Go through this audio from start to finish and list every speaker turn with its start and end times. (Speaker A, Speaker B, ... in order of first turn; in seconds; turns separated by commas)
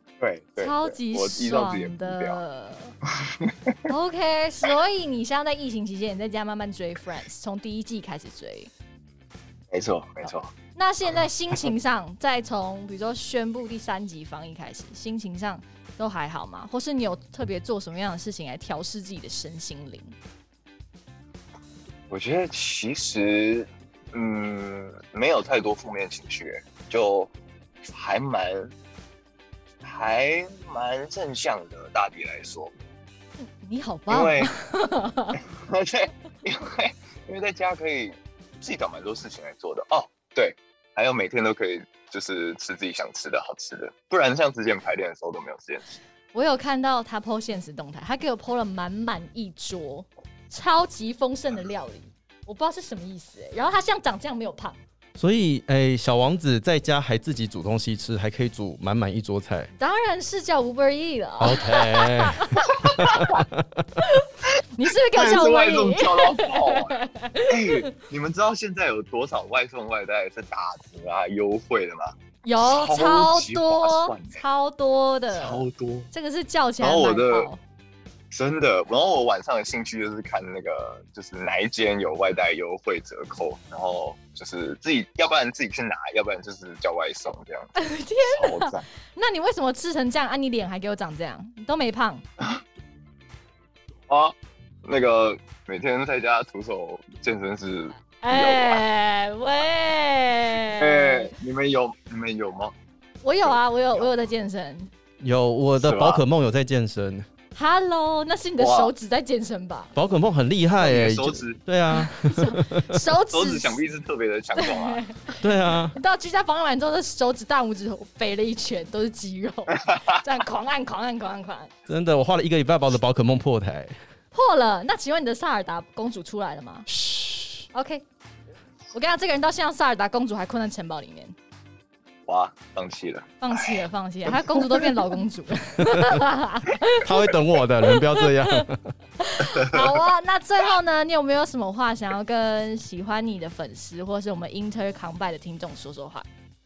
Speaker A: 0.2-2.4, Speaker B: 0.6-3.0, Speaker A: 3.2-3.8, Speaker B: 3.9-8.7, Speaker A: 9.7-10.5, Speaker B: 10.8-20.1, Speaker A: 22.1-27.3, Speaker A: 27.9-28.7, Speaker A: 29.8-32.7, Speaker B: 33.4-35.4, Speaker A: 34.1-34.5, Speaker A: 35.6-46.0, Speaker B: 46.3-54.8, Speaker C: 55.2-59.7, Speaker B: 59.8-62.9, Speaker C: 61.4-64.0, Speaker B: 64.0-67.8, Speaker A: 65.1-67.0, Speaker A: 67.5-74.4, Speaker B: 72.4-77.6, Speaker A: 75.3-76.1, Speaker A: 76.8-77.5, Speaker A: 78.3-88.9, Speaker B: 87.8-92.2, Speaker A: 94.1-98.8, Speaker B: 98.2-101.3, Speaker A: 100.8-102.7, Speaker B: 103.2-104.9, Speaker A: 103.4-104.1, Speaker C: 105.2-107.3, Speaker A: 105.8-106.2, Speaker B: 107.5-109.9, Speaker A: 108.6-108.9, Speaker C: 110.0-113.0, Speaker A: 110.8-111.6, Speaker B: 111.9-113.8, Speaker A: 113.3-115.0, Speaker B: 114.6-115.4, Speaker C: 115.4-116.0, Speaker B: 115.9-121.7, Speaker A: 119.9-120.2, Speaker C: 121.9-124.0, Speaker B: 124.3-126.9, Speaker C: 126.9-127.7, Speaker B: 127.7-128.0, Speaker B: 128.9-131.3, Speaker A: 132.3-134.9, Speaker B: 133.4-137.3, Speaker C: 137.0-138.8, Speaker B: 137.9-138.6, Speaker B: 139.2-146.3